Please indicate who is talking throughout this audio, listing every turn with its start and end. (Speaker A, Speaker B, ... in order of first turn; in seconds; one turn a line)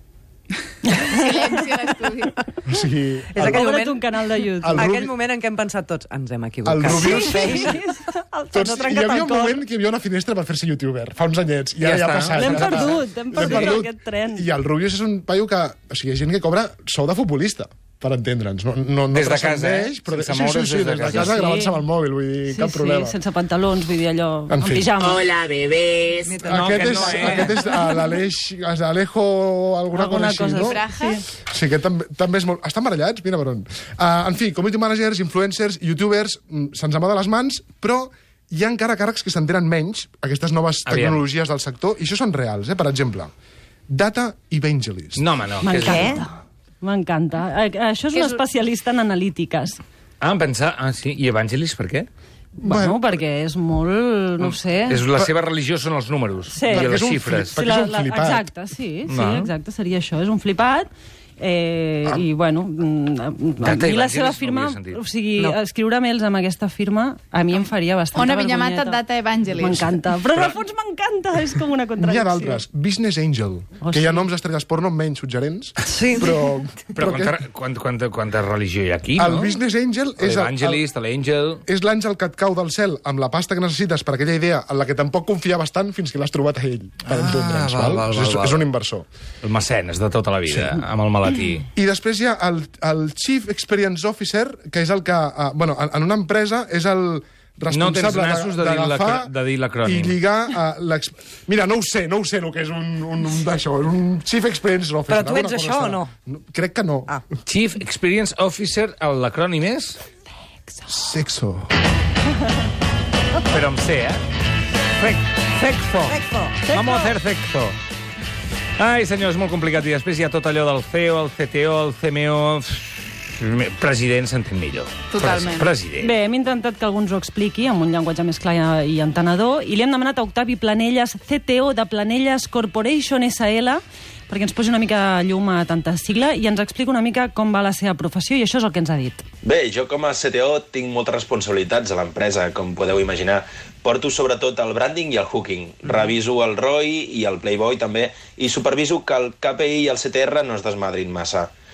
Speaker A: 0.8-1.6
Speaker B: 1.1-2.3
Speaker C: 2.6-3.6
Speaker D: 3.3-4.0
Speaker A: 3.4-4.9
Speaker C: 4.6-5.1
Speaker D: 4.7-7.8
Speaker C: 6.6-7.7
Speaker A: 6.9-9.6
Speaker C: 8.5-23.1
Speaker E: 11.8-13.8
Speaker A: 12.3-14.5
Speaker E: 19.1-21.4
Speaker A: 21.1-21.8
Speaker A: 22.5-25.2
Speaker C: 24.5-24.9
Speaker E: 25.0-27.6
Speaker D: 26.2-27.3
Speaker C: 26.4-30.8
Speaker A: 29.9-31.2
Speaker B: 30.7-31.2
Speaker C: 31.4-43.3
Speaker E: 40.9-41.2
Speaker C: 43.9-45.2
Speaker E: 45.1-46.2
Speaker A: 45.6-49.8
Speaker D: 45.8-46.2
Speaker B: 48.1-48.4
Speaker E: 50.2-52.1
Speaker C: 52.6-53.1
Speaker A: 52.6-55.0
Speaker E: 54.4-57.5
Speaker A: 56.5-57.0
Speaker C: 56.7-58.5
Speaker A: 57.5-69.0
Speaker E: 59.1-59.5
Speaker E: 63.6-65.0
Speaker B: 67.5-69.9
Speaker A: 69.6-72.6
Speaker C: 72.0-77.4
Speaker A: 73.8-74.2
Speaker D: 75.8-76.3
Speaker E: 77.0-79.6
Speaker C: 79.2-80.8
Speaker E: 80.2-81.6
Speaker C: 81.7-89.0
Speaker E: 87.0-88.6
Speaker E: 89.4-91.7
Speaker C: 90.5-90.8
Speaker C: 91.7-107.2
Speaker E: 97.7-100.2
Speaker D: 105.1-106.1
Speaker E: 107.5-110.0
Speaker C: 110.9-111.7
Speaker E: 113.5-114.2
Speaker E: 115.0-117.7
Speaker D: 116.0-116.6
Speaker E: 118.8-126.1
Speaker B: 125.1-125.7
Speaker A: 126.0-139.2
Speaker F: 139.4-151.5